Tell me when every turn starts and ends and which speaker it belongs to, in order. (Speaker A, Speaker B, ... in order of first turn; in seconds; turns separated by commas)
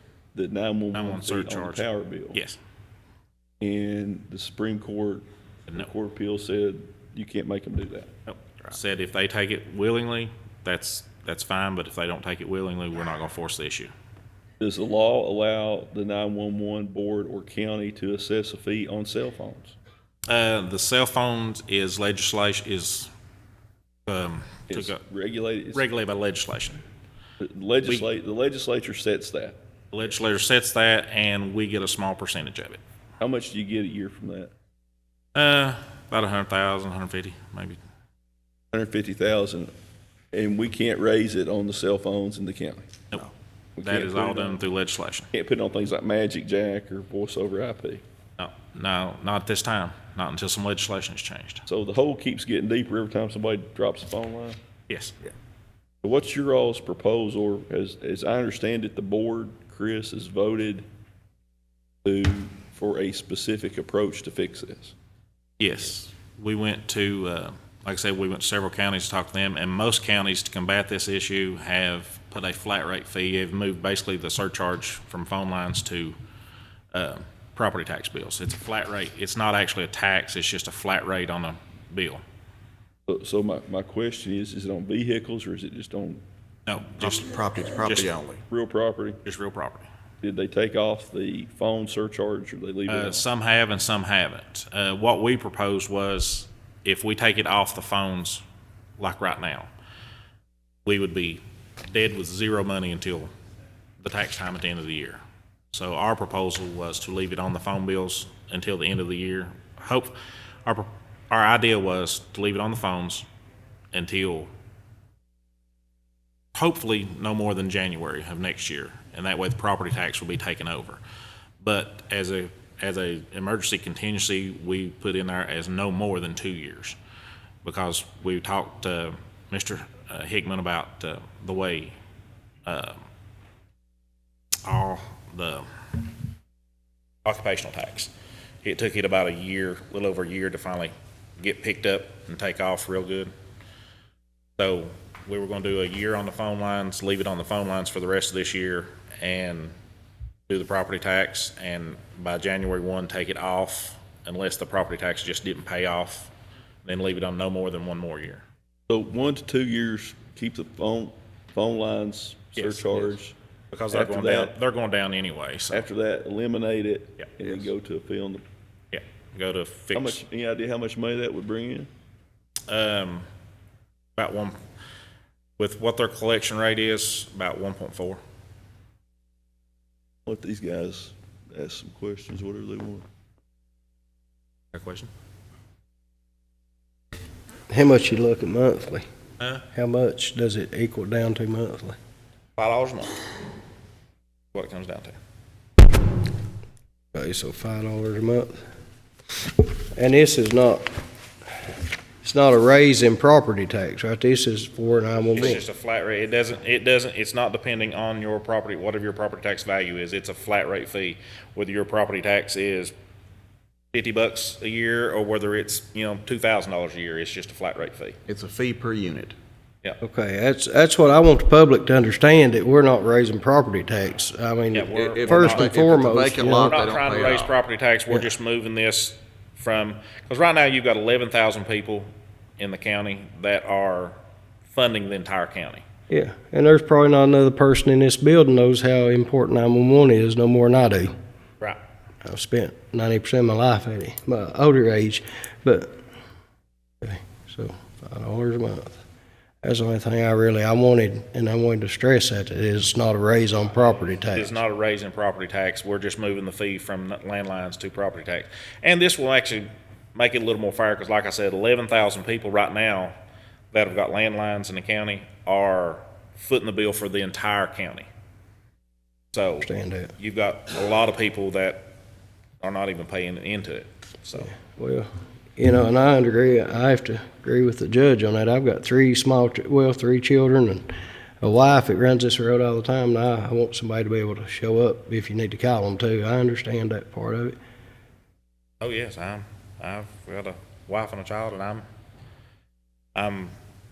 Speaker A: 0.3-2.4, Speaker B: 0.9-2.6, Speaker A: 3.6-8.1, Speaker B: 8.3-13.9, Speaker A: 14.6-19.7, Speaker B: 20.3-23.1, Speaker B: 24.1-25.0, Speaker A: 24.7-25.8, Speaker B: 25.7-26.8, Speaker A: 27.4-29.6, Speaker B: 29.9-32.8, Speaker A: 33.2-34.5, Speaker B: 35.3-37.8, Speaker A: 38.7-39.7, Speaker A: 40.3-42.9, Speaker A: 43.8-44.6, Speaker B: 43.8-45.3, Speaker A: 45.3-48.0, Speaker B: 48.4-51.6, Speaker A: 51.6-54.6, Speaker B: 54.9-55.1, Speaker A: 56.0-60.8, Speaker A: 62.0-64.9, Speaker B: 65.6-76.2, Speaker B: 76.9-82.2, Speaker A: 83.1-86.2, Speaker B: 86.7-87.2, Speaker C: 87.0-88.4, Speaker B: 87.8-88.1, Speaker A: 88.5-89.2, Speaker B: 89.2-89.8, Speaker A: 90.2-93.2, Speaker B: 92.9-98.4, Speaker B: 99.0-99.7, Speaker B: 100.8-103.3, Speaker B: 104.0-113.2, Speaker B: 113.9-114.5, Speaker B: 116.5-121.0, Speaker B: 121.6-127.0, Speaker B: 127.6-131.9, Speaker B: 132.7-133.0, Speaker B: 134.6-135.7, Speaker B: 137.2-138.1, Speaker B: 138.6-143.3, Speaker B: 144.6-149.7, Speaker B: 150.5-156.3, Speaker B: 156.8-158.4, Speaker A: 158.9-163.3, Speaker B: 162.6-163.2, Speaker B: 163.7-165.9, Speaker A: 163.9-164.5, Speaker A: 165.7-168.4, Speaker B: 168.9-170.2, Speaker A: 169.9-171.9, Speaker B: 172.7-173.2, Speaker B: 174.2-174.5, Speaker B: 175.6-178.2, Speaker A: 180.2-183.0, Speaker B: 184.7-185.1, Speaker D: 187.7-189.0, Speaker D: 189.7-191.9, Speaker B: 192.6-193.2, Speaker B: 194.5-195.1, Speaker D: 197.1-198.6, Speaker D: 200.0-200.8, Speaker D: 202.2-205.6, Speaker B: 205.3-212.9, Speaker B: 213.9-218.2, Speaker C: 218.2-219.3, Speaker D: 220.0-226.9, Speaker B: 224.7-225.9, Speaker C: 224.9-227.5, Speaker B: 226.4-232.1, Speaker B: 232.6-234.2, Speaker B: 234.7-235.8, Speaker D: 236.1-241.1, Speaker D: 242.2-245.9, Speaker D: 247.0-249.0, Speaker D: 249.6-254.5, Speaker B: 254.3-263.1, Speaker B: 263.7-268.1, Speaker B: 269.3-271.9, Speaker D: 269.6-270.1, Speaker B: 272.6-274.5, Speaker D: 274.3-280.9, Speaker D: 281.4-287.6, Speaker B: 288.8-291.8, Speaker B: 293.1-293.5